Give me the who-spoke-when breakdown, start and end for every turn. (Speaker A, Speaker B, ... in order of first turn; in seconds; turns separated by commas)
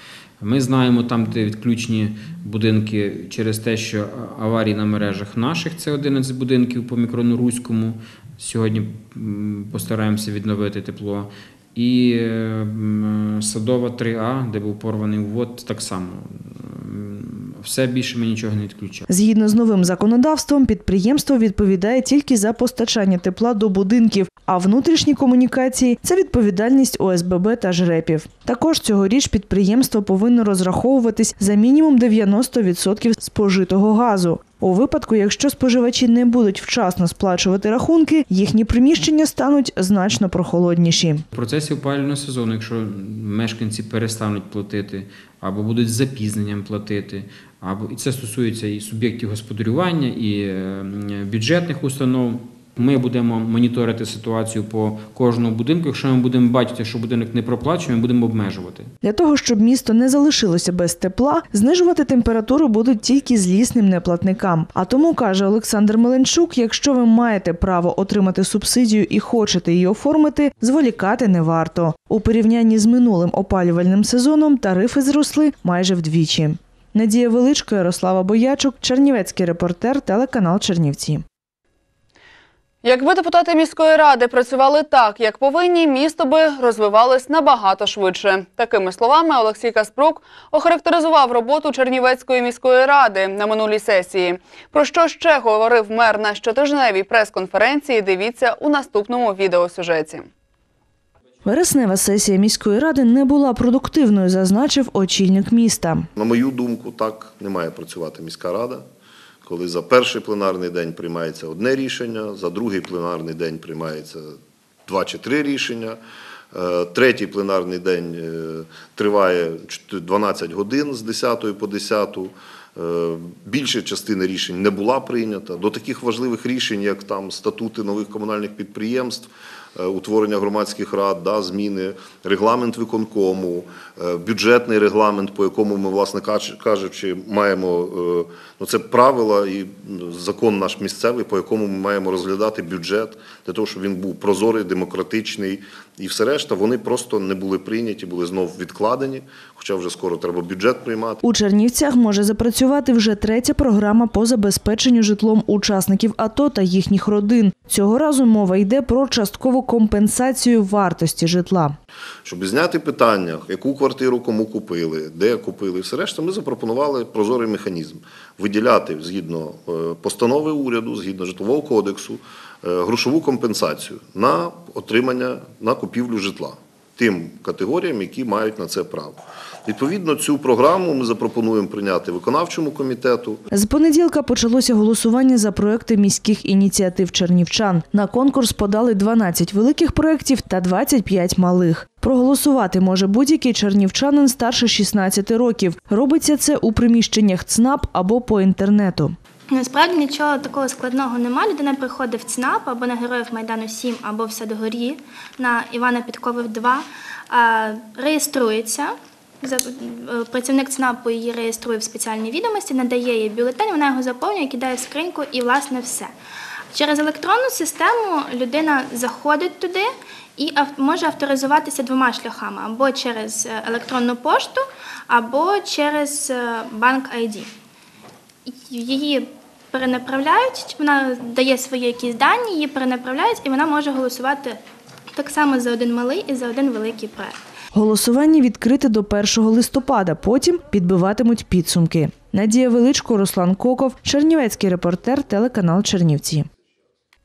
Speaker A: 0.4-19.1, Speaker B: 19.1-41.2, Speaker A: 41.3-58.9, Speaker B: 59.0-81.2, Speaker C: 82.8-100.3, Speaker B: 101.5-106.1, Speaker D: 106.2-108.8, Speaker D: 109.4-114.4, Speaker D: 114.9-116.0, Speaker D: 116.5-151.2, Speaker B: 151.2-161.8, Speaker D: 162.2-183.4, Speaker B: 183.5-199.1, Speaker E: 199.5-216.1, Speaker E: 216.7-227.5, Speaker E: 228.5-234.6, Speaker E: 235.1-237.4, Speaker B: 237.7-246.5